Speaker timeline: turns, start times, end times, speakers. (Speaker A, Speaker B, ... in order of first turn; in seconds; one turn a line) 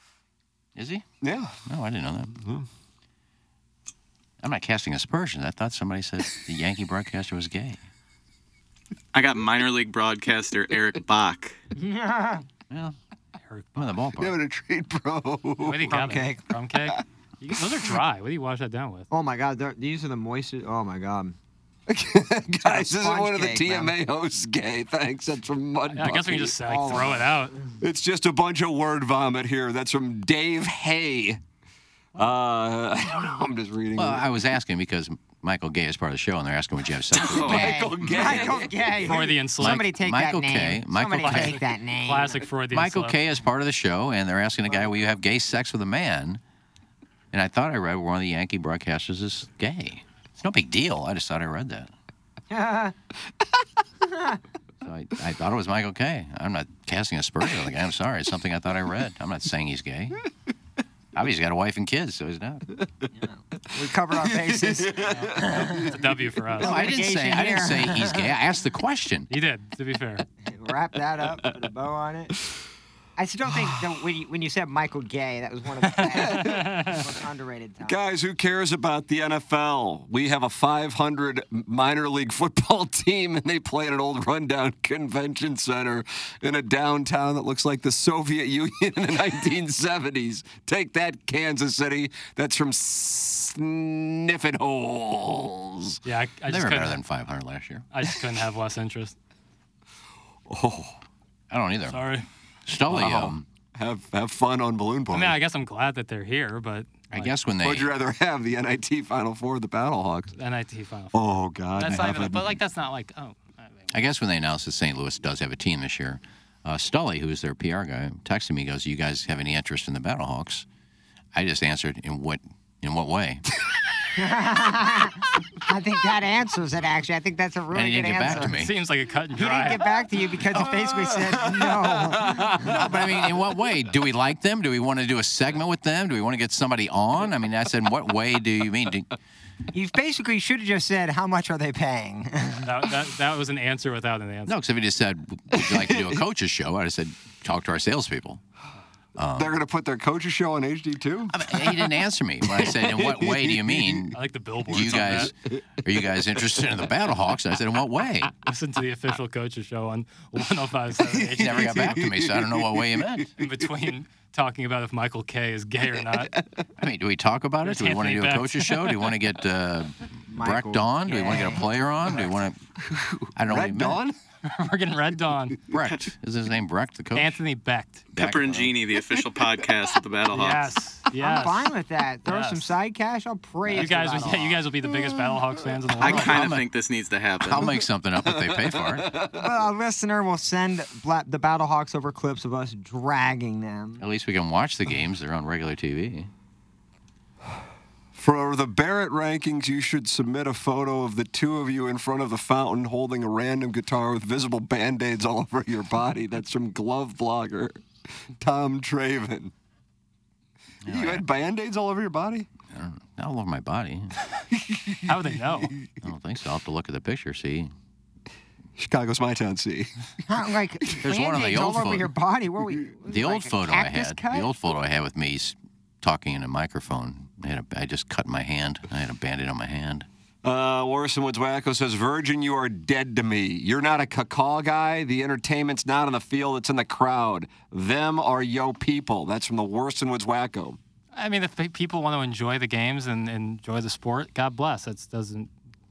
Speaker A: 0.8-1.1
Speaker B: 1.2-1.6
Speaker A: 1.7-2.3
Speaker B: 2.4-2.7
Speaker A: 4.4-7.8
Speaker C: 9.1-11.6
Speaker D: 11.8-12.4
Speaker A: 12.7-12.9
Speaker E: 13.5-13.9
Speaker A: 13.8-14.4
Speaker B: 14.2-16.0
Speaker E: 15.6-19.1
Speaker D: 15.9-16.4
Speaker D: 19.1-21.4
Speaker B: 21.9-26.6
Speaker D: 22.6-23.9
Speaker E: 25.9-27.6
Speaker D: 26.6-27.4
Speaker B: 27.8-31.4
Speaker B: 32.2-34.3
Speaker A: 34.0-38.5
Speaker B: 37.1-39.1
Speaker D: 37.3-42.4
Speaker E: 39.0-39.9
Speaker A: 39.6-41.6
Speaker E: 41.1-43.2
Speaker A: 42.7-46.4
Speaker A: 47.3-51.9
Speaker D: 52.5-53.0
Speaker D: 54.0-54.4
Speaker A: 54.8-60.2
Speaker A: 61.1-62.7
Speaker D: 63.2-65.7
Speaker B: 64.2-66.0
Speaker E: 65.1-66.8
Speaker D: 66.6-68.3
Speaker A: 66.6-69.3
Speaker E: 69.3-70.2
Speaker D: 70.5-72.3
Speaker D: 73.2-78.0
Speaker B: 73.5-73.8
Speaker B: 76.1-76.7
Speaker E: 76.3-77.0
Speaker B: 77.8-96.0
Speaker E: 96.0-97.0
Speaker A: 96.5-97.9
Speaker E: 97.9-99.2
Speaker B: 100.5-101.0
Speaker A: 101.5-102.0
Speaker E: 101.9-102.3
Speaker A: 102.7-103.5
Speaker B: 102.9-105.4
Speaker E: 105.1-107.3
Speaker A: 107.1-107.9
Speaker B: 107.6-110.3
Speaker E: 110.3-111.2
Speaker B: 111.1-112.6
Speaker E: 111.7-114.0
Speaker A: 113.9-120.7
Speaker A: 121.3-123.4
Speaker D: 124.2-128.5
Speaker A: 127.7-128.7
Speaker E: 128.3-129.8
Speaker D: 129.4-132.9
Speaker B: 130.5-133.3
Speaker A: 132.7-139.1
Speaker D: 139.7-142.7
Speaker E: 142.7-144.6
Speaker A: 144.5-148.4
Speaker B: 145.6-146.2
Speaker A: 149.2-149.6
Speaker B: 149.3-151.9
Speaker A: 151.3-154.2
Speaker B: 152.4-154.1
Speaker E: 154.1-155.3
Speaker A: 154.7-158.3
Speaker B: 154.7-155.3
Speaker E: 158.4-162.0
Speaker B: 161.1-163.5
Speaker A: 161.3-163.3
Speaker E: 163.4-166.3
Speaker B: 166.0-166.7
Speaker A: 166.8-172.6
Speaker E: 167.6-168.9
Speaker D: 170.3-171.7
Speaker B: 172.8-174.2
Speaker A: 173.4-174.0
Speaker E: 174.4-175.6
Speaker A: 175.7-177.4
Speaker E: 177.1-178.1
Speaker A: 178.1-178.8
Speaker C: 178.2-180.7
Speaker E: 180.3-181.7
Speaker D: 181.2-184.6
Speaker E: 182.2-182.7
Speaker E: 183.7-186.5
Speaker C: 186.0-187.8
Speaker A: 186.1-186.7
Speaker A: 187.4-189.1
Speaker B: 187.6-189.5
Speaker D: 189.4-194.0
Speaker A: 194.0-196.3
Speaker B: 198.2-207.8
Speaker B: 208.4-209.5
Speaker A: 210.8-211.2
Speaker B: 210.9-212.5
Speaker A: 212.7-214.1
Speaker B: 214.5-215.9
Speaker E: 215.1-215.7
Speaker A: 216.0-217.7
Speaker B: 218.8-220.1
Speaker D: 220.3-224.5
Speaker A: 221.0-222.1
Speaker A: 223.1-230.1
Speaker B: 230.4-240.8
Speaker E: 241.1-245.5